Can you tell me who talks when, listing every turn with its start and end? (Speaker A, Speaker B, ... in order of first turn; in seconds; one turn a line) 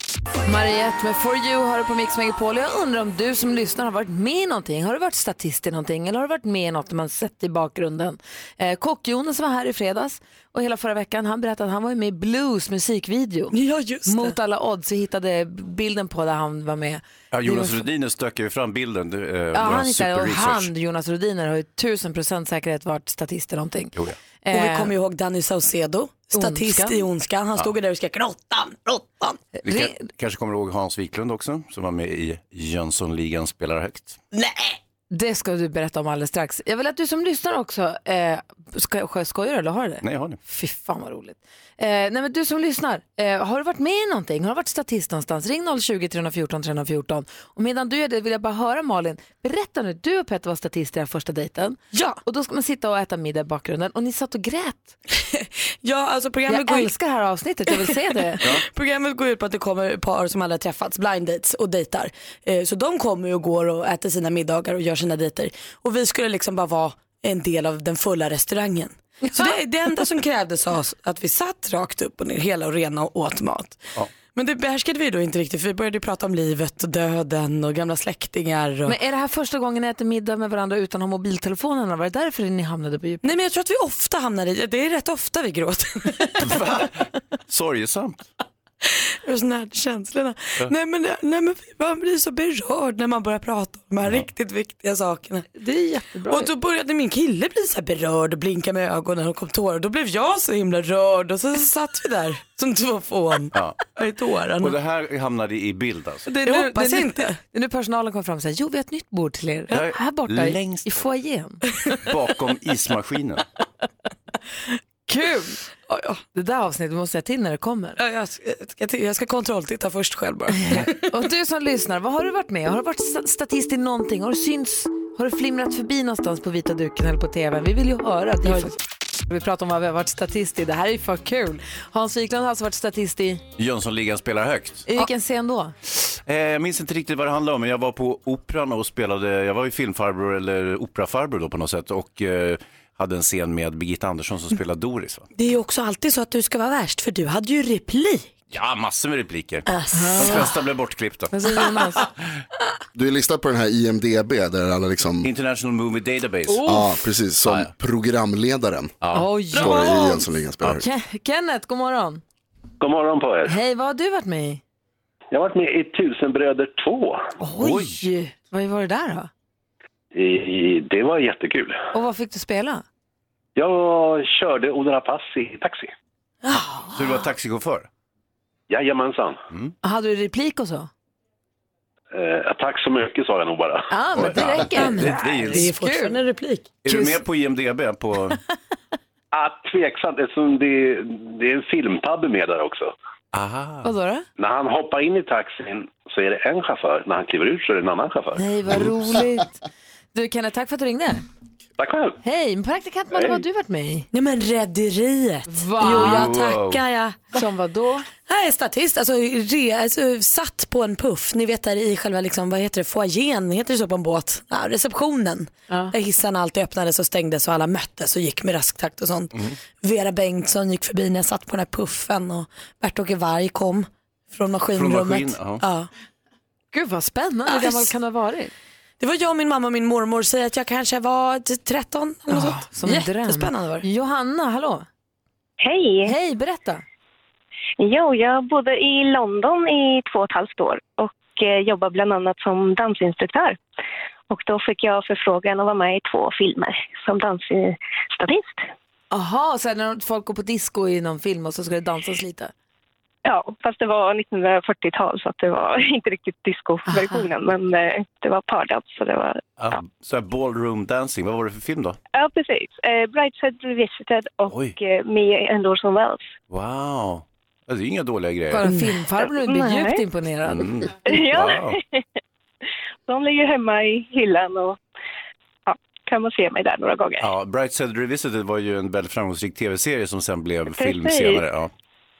Speaker A: 0.4-17.8
Speaker B: 13.5-14.3
Speaker C: 17.3-20.7
Speaker A: 19.5-23.9
Speaker A: 24.4-24.9
Speaker B: 24.5-29.4
Speaker A: 26.3-27.0
Speaker A: 29.6-30.0
Speaker C: 29.6-34.2
Speaker B: 34.3-34.8
Speaker A: 35.1-55.0
Speaker C: 40.0-40.4
Speaker B: 51.9-52.2
Speaker B: 55.1-56.9
Speaker A: 56.5-58.4
Speaker B: 57.7-79.0
Speaker A: 78.8-83.2
Speaker B: 83.2-86.5
Speaker C: 86.4-88.2
Speaker B: 88.8-95.5
Speaker A: 95.5-96.5
Speaker B: 96.3-104.8
Speaker C: 103.5-103.9
Speaker C: 104.6-106.3
Speaker A: 106.3-111.6
Speaker B: 106.4-107.4
Speaker C: 109.7-110.9
Speaker C: 112.0-113.4
Speaker A: 115.1-115.6
Speaker B: 115.9-116.2
Speaker A: 116.3-118.0
Speaker B: 118.0-121.1
Speaker A: 120.6-128.8
Speaker B: 128.4-128.7
Speaker A: 129.3-133.4
Speaker C: 133.6-134.9
Speaker A: 134.9-135.7
Speaker C: 135.9-145.3
Speaker B: 145.3-148.3
Speaker C: 148.5-151.6
Speaker B: 149.7-150.5
Speaker A: 149.9-150.5
Speaker A: 151.3-152.1
Speaker D: 152.9-155.3
Speaker C: 155.2-156.8
Speaker A: 156.5-156.9
Speaker D: 156.6-160.8
Speaker C: 159.0-159.8
Speaker A: 159.1-162.2
Speaker E: 162.8-163.5
Speaker A: 163.4-164.6
Speaker E: 165.3-167.3
Speaker A: 167.4-169.3
Speaker C: 167.6-167.9
Speaker E: 170.1-171.8
Speaker A: 171.9-172.8
Speaker E: 173.6-175.9
Speaker A: 176.5-176.9
Speaker C: 176.9-177.9
Speaker E: 178.7-179.4
Speaker A: 179.8-180.9
Speaker E: 182.1-183.9
Speaker A: 183.9-186.2
Speaker C: 184.1-185.7
Speaker B: 184.5-186.8
Speaker C: 186.8-188.4
Speaker A: 186.9-187.2
Speaker E: 189.3-192.9
Speaker C: 193.3-193.9
Speaker A: 193.8-194.2
Speaker E: 194.4-198.4
Speaker A: 198.3-199.6
Speaker A: 200.1-201.2
Speaker E: 201.8-202.2
Speaker A: 202.2-204.1
Speaker E: 203.1-203.4
Speaker B: 204.1-207.2
Speaker A: 205.5-206.3
Speaker C: 205.8-206.8
Speaker A: 207.3-208.1
Speaker B: 208.2-225.9
Speaker A: 215.7-215.9
Speaker C: 224.7-225.6
Speaker A: 226.7-228.5
Speaker B: 227.5-227.9
Speaker B: 229.0-233.8
Speaker A: 232.3-234.8
Speaker F: 235.6-236.1
Speaker A: 236.0-236.8
Speaker F: 237.8-243.6
Speaker F: 244.3-248.6
Speaker A: 249.1-252.5
Speaker F: 253.2-259.4
Speaker A: 256.9-257.2
Speaker C: 259.6-262.0
Speaker F: 262.1-266.3
Speaker C: 264.5-264.8
Speaker C: 266.5-268.6
Speaker A: 268.5-270.7
Speaker B: 268.6-268.9
Speaker F: 269.2-270.0
Speaker C: 270.4-271.8
Speaker F: 271.1-272.0
Speaker F: 273.1-274.8
Speaker F: 275.6-277.3
Speaker C: 277.2-281.7
Speaker F: 280.7-281.4